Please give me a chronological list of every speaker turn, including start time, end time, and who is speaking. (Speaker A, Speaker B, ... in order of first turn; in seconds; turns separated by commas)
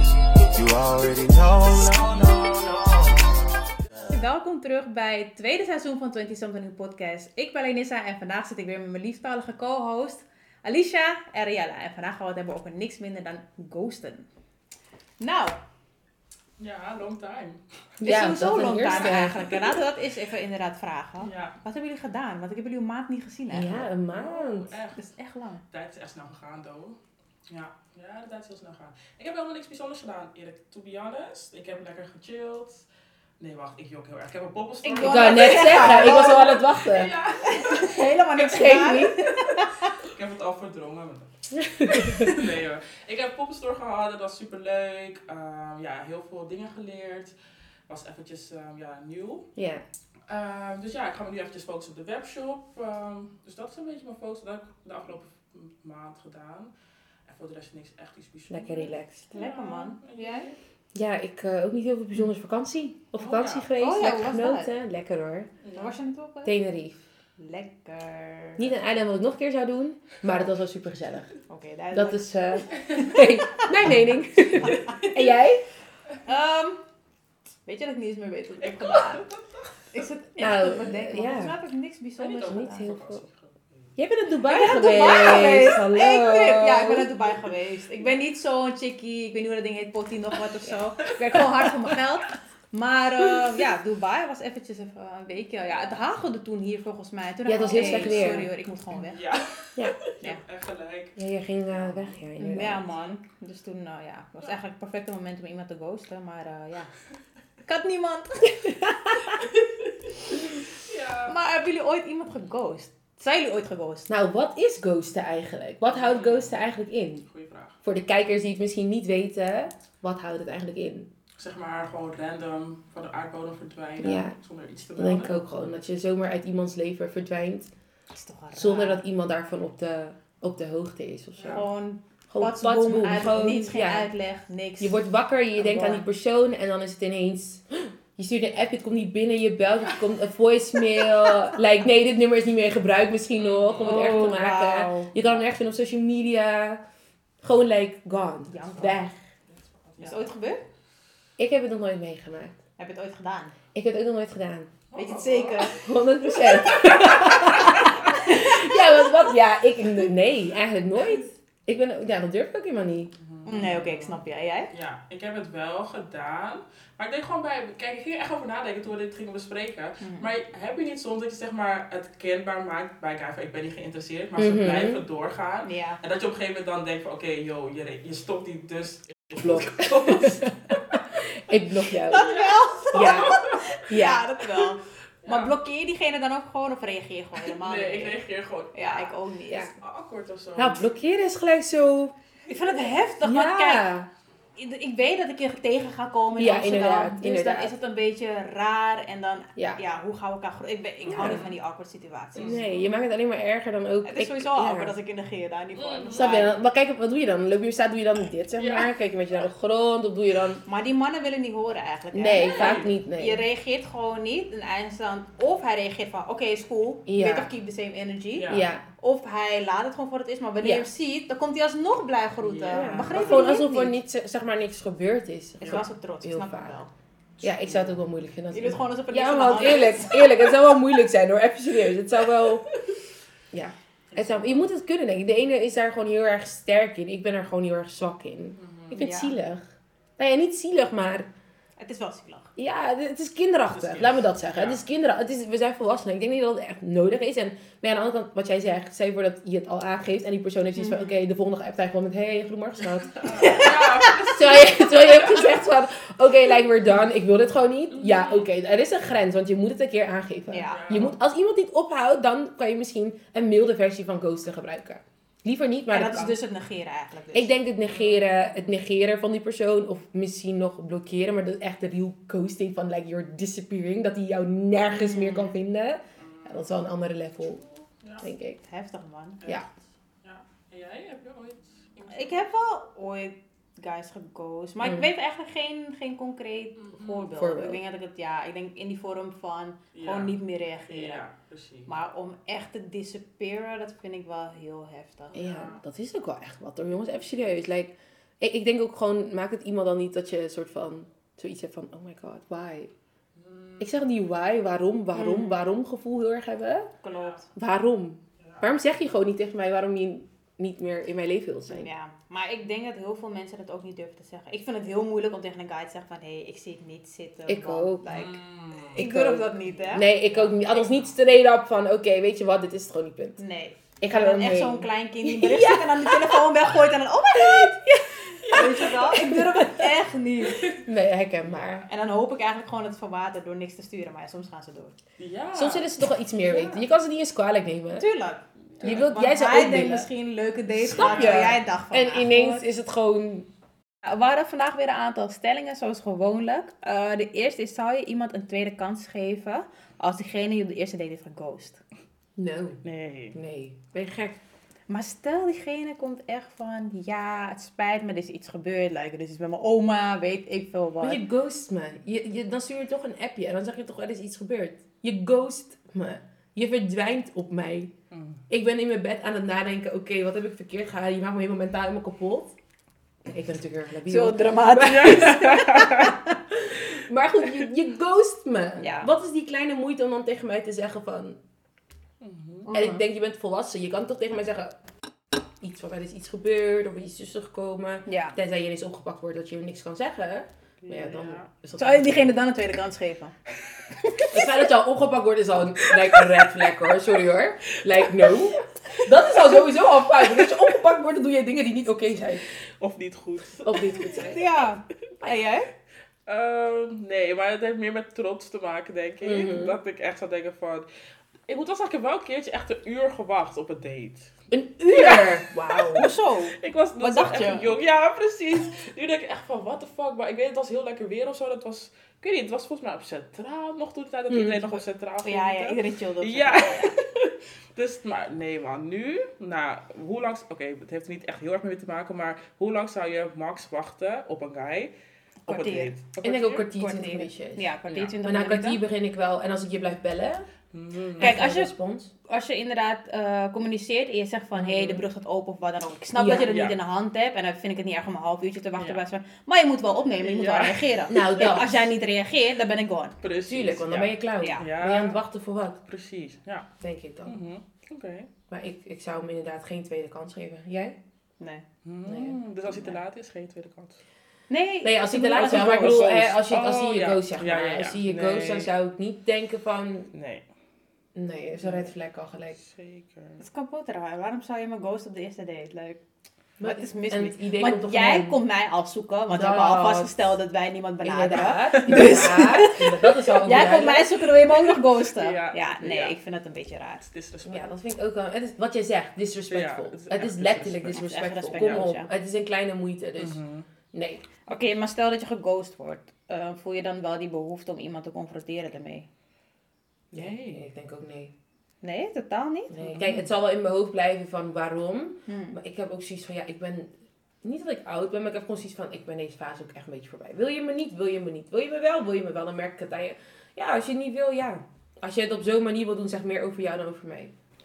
Speaker A: 0.4-3.2, Speaker B: 4.0-14.3, Speaker B: 15.2-15.6, Speaker C: 16.6-17.6, Speaker D: 18.0-19.4, Speaker B: 18.0-23.9, Speaker C: 18.8-19.7, Speaker C: 21.2-21.6, Speaker D: 23.5-24.7, Speaker C: 24.1-25.0, Speaker B: 24.9-25.6, Speaker C: 25.7-27.0, Speaker C: 27.5-32.9, Speaker C: 33.4-38.7, Speaker B: 34.8-36.6, Speaker D: 35.0-37.1, Speaker B: 37.5-39.9, Speaker D: 38.4-39.4, Speaker C: 40.0-41.3, Speaker D: 41.5-42.4, Speaker C: 41.9-47.3, Speaker C: 47.9-49.5, Speaker D: 49.5-49.8, Speaker C: 50.3-56.7, Speaker C: 57.3-60.5, Speaker D: 58.5-59.3, Speaker B: 59.3-60.5, Speaker D: 60.9-65.5, Speaker C: 63.1-63.7, Speaker B: 63.8-64.7, Speaker C: 65.6-65.9, Speaker B: 65.7-66.5, Speaker D: 66.4-67.0, Speaker B: 67.4-68.7, Speaker D: 68.6-71.3, Speaker B: 71.5-73.7, Speaker D: 71.9-75.6, Speaker B: 74.6-75.2, Speaker B: 76.2-76.8, Speaker B: 77.6-79.2, Speaker C: 78.6-79.3, Speaker B: 79.9-82.9, Speaker D: 80.4-81.5, Speaker C: 82.2-83.9, Speaker D: 82.4-83.2, Speaker D: 84.0-87.1, Speaker B: 84.5-99.2, Speaker C: 91.0-91.9, Speaker D: 97.5-98.5, Speaker C: 97.6-103.1, Speaker D: 101.2-102.8, Speaker B: 102.4-106.9, Speaker B: 107.7-109.4, Speaker C: 110.8-111.3, Speaker B: 111.2-114.1, Speaker D: 114.1-117.2, Speaker C: 115.8-116.6, Speaker C: 117.2-117.7, Speaker D: 117.8-121.1, Speaker C: 121.4-125.4, Speaker D: 124.0-124.3, Speaker D: 125.0-127.7, Speaker B: 128.1-129.1, Speaker D: 128.5-131.7, Speaker C: 131.4-131.6, Speaker B: 131.5-135.0, Speaker D: 132.3-134.1, Speaker D: 134.8-146.8, Speaker C: 135.6-136.0, Speaker C: 143.4-145.3, Speaker B: 143.8-145.0, Speaker D: 147.4-149.1, Speaker B: 148.5-149.0, Speaker C: 149.5-150.3, Speaker B: 150.0-150.6, Speaker D: 151.4-152.6, Speaker B: 152.8-153.5, Speaker D: 153.7-154.7, Speaker C: 154.9-155.8, Speaker B: 154.9-155.8, Speaker D: 155.8-163.1, Speaker B: 157.2-158.4, Speaker C: 157.7-158.2, Speaker C: 163.2-180.5, Speaker B: 163.4-164.7, Speaker B: 170.0-170.3, Speaker D: 174.4-175.0, Speaker B: 175.6-176.0, Speaker D: 179.4-182.2, Speaker B: 182.1-188.2, Speaker C: 182.1-183.6, Speaker D: 182.9-184.2, Speaker C: 185.2-185.5, Speaker C: 187.4-189.2, Speaker B: 188.7-189.7, Speaker D: 189.5-189.7, Speaker C: 189.8-190.8, Speaker D: 190.6-192.1, Speaker B: 192.5-193.9, Speaker D: 193.2-194.1, Speaker B: 194.6-202.6, Speaker D: 196.3-197.7, Speaker C: 201.0-201.5, Speaker D: 201.1-201.4, Speaker C: 202.4-202.9, Speaker D: 202.4-204.9, Speaker B: 204.0-206.5, Speaker C: 205.8-206.2, Speaker D: 206.1-210.6, Speaker C: 208.6-208.9, Speaker B: 210.6-224.0, Speaker D: 212.1-213.4, Speaker C: 212.4-212.9, Speaker D: 217.1-217.5, Speaker C: 218.3-218.7, Speaker D: 218.5-218.8, Speaker D: 220.6-220.9, Speaker C: 222.4-223.6, Speaker D: 222.7-226.8, Speaker B: 225.6-226.9, Speaker C: 227.4-228.0, Speaker D: 227.4-232.7, Speaker B: 228.5-230.2, Speaker D: 233.5-241.3, Speaker C: 234.1-234.7, Speaker C: 238.6-239.0, Speaker B: 239.0-239.3, Speaker B: 241.8-242.5, Speaker D: 242.6-266.4, Speaker C: 243.7-244.8, Speaker C: 253.2-255.2, Speaker B: 253.4-254.1, Speaker C: 257.9-258.5, Speaker B: 260.5-260.9, Speaker C: 260.7-261.1, Speaker B: 265.9-267.6, Speaker D: 267.3-277.6, Speaker C: 267.8-268.6, Speaker B: 274.9-275.6, Speaker C: 276.2-276.7, Speaker C: 278.0-278.3, Speaker D: 278.2-278.6, Speaker B: 278.6-279.4, Speaker C: 280.2-282.5, Speaker B: 282.1-291.2, Speaker D: 284.8-285.1, Speaker C: 286.8-287.3, Speaker D: 287.3-287.8, Speaker C: 289.9-291.9, Speaker B: 291.9-295.4, Speaker D: 295.3-302.9, Speaker C: 295.4-295.8, Speaker C: 303.4-304.1, Speaker D: 303.8-306.9, Speaker B: 305.1-305.6, Speaker B: 307.0-307.4, Speaker C: 307.1-307.4, Speaker D: 307.6-311.9, Speaker C: 308.4-308.7, Speaker B: 311.7-318.4, Speaker D: 317.5-318.1, Speaker C: 318.1-319.0, Speaker D: 318.9-323.4, Speaker B: 318.9-320.5, Speaker B: 323.4-327.8, Speaker D: 324.0-326.5, Speaker D: 327.5-329.9, Speaker C: 328.4-328.9, Speaker B: 328.5-330.8, Speaker D: 330.6-331.9, Speaker B: 331.8-334.9, Speaker C: 335.2-335.9, Speaker D: 335.5-338.1, Speaker C: 336.4-336.9, Speaker B: 338.0-342.7, Speaker D: 338.8-340.1, Speaker D: 340.8-343.5, Speaker C: 340.9-341.5, Speaker B: 344.0-351.8, Speaker D: 352.4-352.8, Speaker C: 352.8-353.4, Speaker D: 353.3-354.4, Speaker B: 354.9-361.2, Speaker D: 361.0-367.9, Speaker C: 368.1-368.4, Speaker D: 368.5-372.5, Speaker D: 373.3-381.4, Speaker B: 374.1-376.3, Speaker C: 374.9-376.1, Speaker B: 378.8-379.1, Speaker C: 382.2-382.7, Speaker B: 382.7-383.0, Speaker D: 382.7-384.7, Speaker D: 385.6-392.4, Speaker B: 388.1-388.4, Speaker C: 390.8-391.5, Speaker B: 391.8-393.3, Speaker B: 394.1-394.4, Speaker D: 394.3-402.4, Speaker C: 395.9-396.6, Speaker C: 397.9-398.4, Speaker C: 399.1-399.6, Speaker C: 400.2-400.7, Speaker C: 402.8-404.3, Speaker D: 403.6-404.4, Speaker B: 404.2-405.7, Speaker C: 406.2-410.9, Speaker D: 409.2-409.8, Speaker C: 411.5-414.3, Speaker D: 414.5-416.1, Speaker C: 414.9-434.9, Speaker B: 415.9-417.8, Speaker D: 424.3-424.7, Speaker B: 425.2-426.9, Speaker B: 435.4-436.1, Speaker C: 435.5-436.7, Speaker D: 436.2-440.4, Speaker B: 436.6-438.8, Speaker C: 437.9-438.2, Speaker C: 440.7-441.4, Speaker D: 441.2-442.1, Speaker B: 441.2-441.7, Speaker B: 442.2-453.2, Speaker D: 444.6-445.0, Speaker D: 446.1-446.5, Speaker C: 446.4-446.8, Speaker C: 450.2-450.9, Speaker D: 451.1-451.9, Speaker C: 453.2-455.2, Speaker D: 453.5-455.8, Speaker B: 454.4-454.6, Speaker C: 455.9-456.7, Speaker D: 456.8-457.4, Speaker C: 457.2-458.3, Speaker D: 458.5-460.9, Speaker B: 461.4-461.6, Speaker C: 461.8-464.0, Speaker D: 462.1-462.3, Speaker B: 462.7-462.9, Speaker B: 464.5-466.3, Speaker D: 464.8-470.1, Speaker C: 465.3-468.7, Speaker C: 470.1-470.4, Speaker D: 471.1-472.6, Speaker C: 471.6-471.9, Speaker C: 472.6-473.4, Speaker B: 473.4-476.0, Speaker D: 476.6-478.4, Speaker B: 476.6-487.1, Speaker D: 479.3-480.1, Speaker D: 481.0-484.1, Speaker C: 481.7-482.5, Speaker C: 485.1-486.1, Speaker C: 487.1-487.7, Speaker D: 487.4-494.2, Speaker C: 489.5-491.9, Speaker B: 490.9-492.1, Speaker C: 493.2-493.7, Speaker B: 494.5-499.1, Speaker C: 500.1-500.6, Speaker D: 500.2-501.3, Speaker B: 501.8-502.9, Speaker D: 502.7-506.9, Speaker C: 502.9-503.2, Speaker B: 505.2-505.6, Speaker D: 507.4-517.3